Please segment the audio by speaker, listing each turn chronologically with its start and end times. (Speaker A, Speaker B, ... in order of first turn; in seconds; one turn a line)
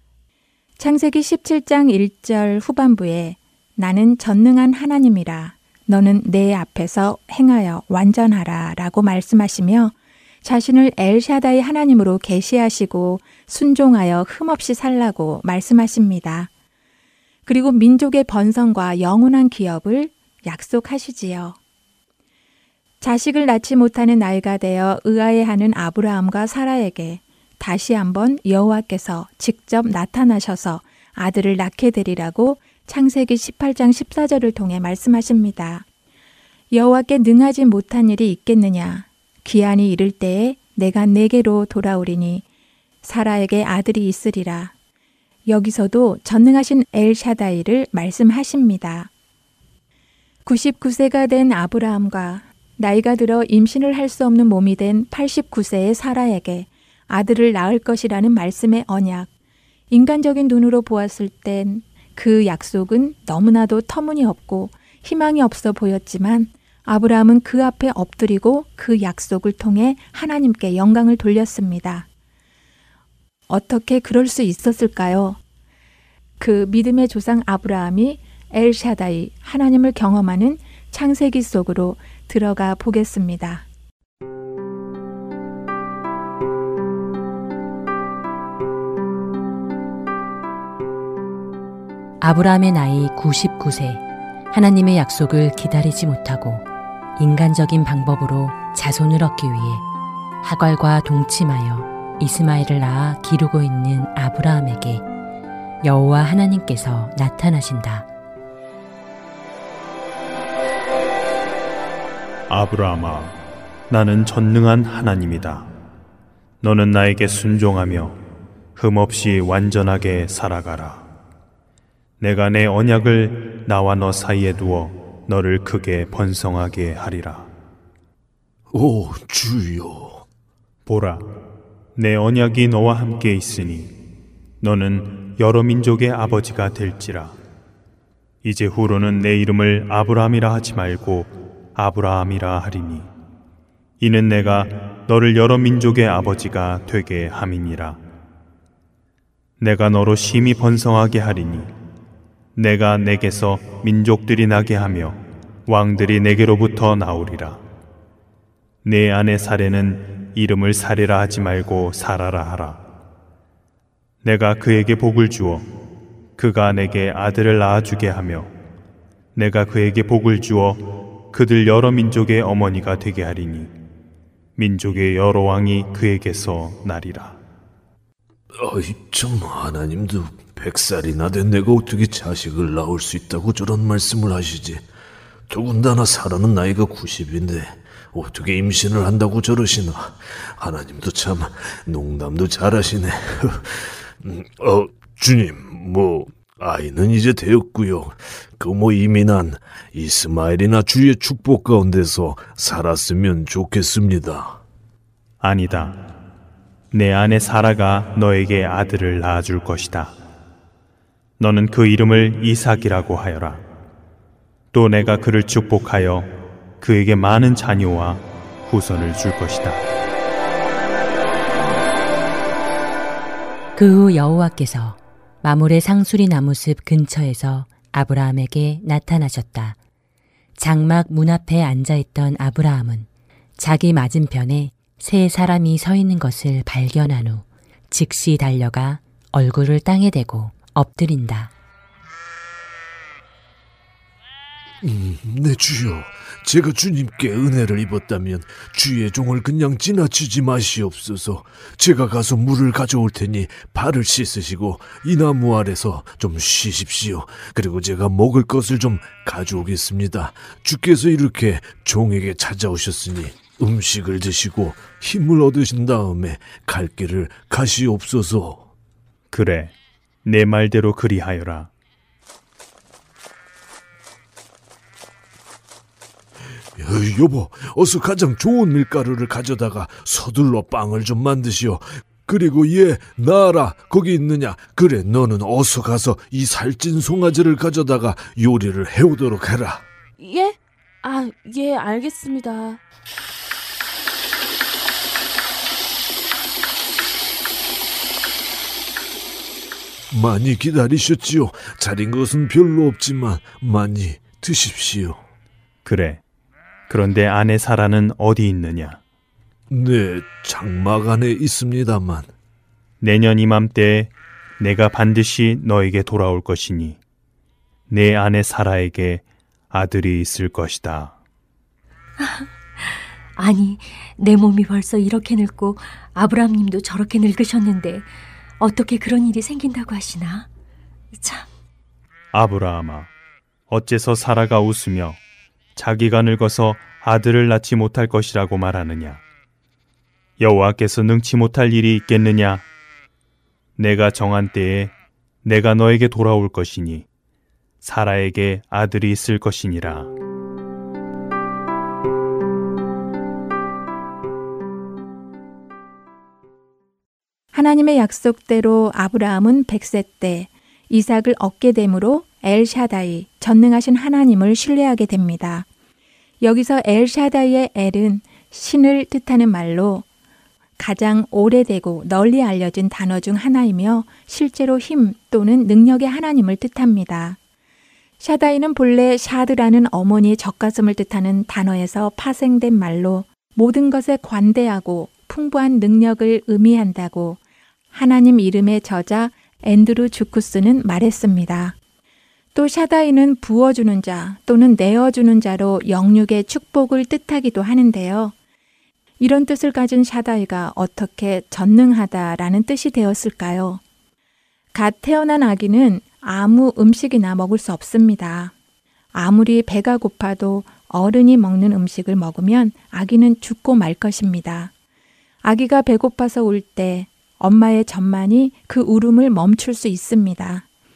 Speaker A: 0.8-16.5
Speaker A: 17.4-21.6
Speaker A: 23.0-35.9
Speaker A: 36.7-42.4
Speaker A: 43.0-44.7
Speaker A: 45.5-49.1
Speaker A: 50.5-59.3
Speaker A: 59.9-72.0
Speaker A: 73.5-75.4
Speaker A: 76.4-83.7
Speaker B: 92.2-96.6
Speaker B: 97.2-99.8
Speaker B: 100.4-105.0
Speaker B: 105.8-108.0
Speaker C: 112.5-113.3
Speaker C: 113.9-115.7
Speaker C: 116.6-118.2
Speaker C: 118.8-121.0
Speaker C: 122.2-127.5
Speaker D: 128.7-130.2
Speaker C: 130.8-131.2
Speaker C: 131.9-133.9
Speaker C: 134.6-137.3
Speaker C: 138.4-143.1
Speaker C: 144.0-148.0
Speaker C: 149.6-151.7
Speaker C: 152.6-157.6
Speaker C: 158.8-162.8
Speaker C: 164.2-165.7
Speaker C: 166.4-168.5
Speaker C: 169.3-173.7
Speaker C: 174.6-177.4
Speaker D: 178.5-184.8
Speaker D: 185.5-204.6
Speaker C: 205.4-206.0
Speaker C: 206.9-210.2
Speaker C: 211.4-213.6
Speaker C: 214.7-216.3
Speaker C: 216.8-219.8
Speaker B: 223.8-229.8
Speaker B: 230.6-241.5
Speaker D: 244.8-268.7
Speaker C: 269.3-271.7
Speaker D: 276.7-289.9
Speaker E: 290.2-292.8
Speaker D: 300.1-305.2
Speaker C: 305.8-306.2
Speaker C: 306.9-309.0
Speaker D: 309.7-312.3
Speaker C: 313.0-317.0
Speaker C: 317.9-321.2
Speaker F: 322.2-330.5
Speaker F: 331.1-331.5
Speaker C: 332.3-333.1
Speaker C: 333.7-335.2
Speaker C: 335.8-339.2
Speaker C: 340.4-342.6
Speaker C: 343.8-344.9
Speaker C: 345.4-347.0
Speaker C: 347.8-350.1
Speaker A: 357.5-365.7
Speaker A: 366.4-370.0
Speaker A: 370.8-377.4
Speaker A: 378.2-387.4
Speaker A: 387.9-391.8
Speaker A: 392.5-398.3
Speaker A: 399.2-403.8
Speaker A: 404.7-408.5
Speaker A: 409.1-414.7
Speaker A: 415.4-420.6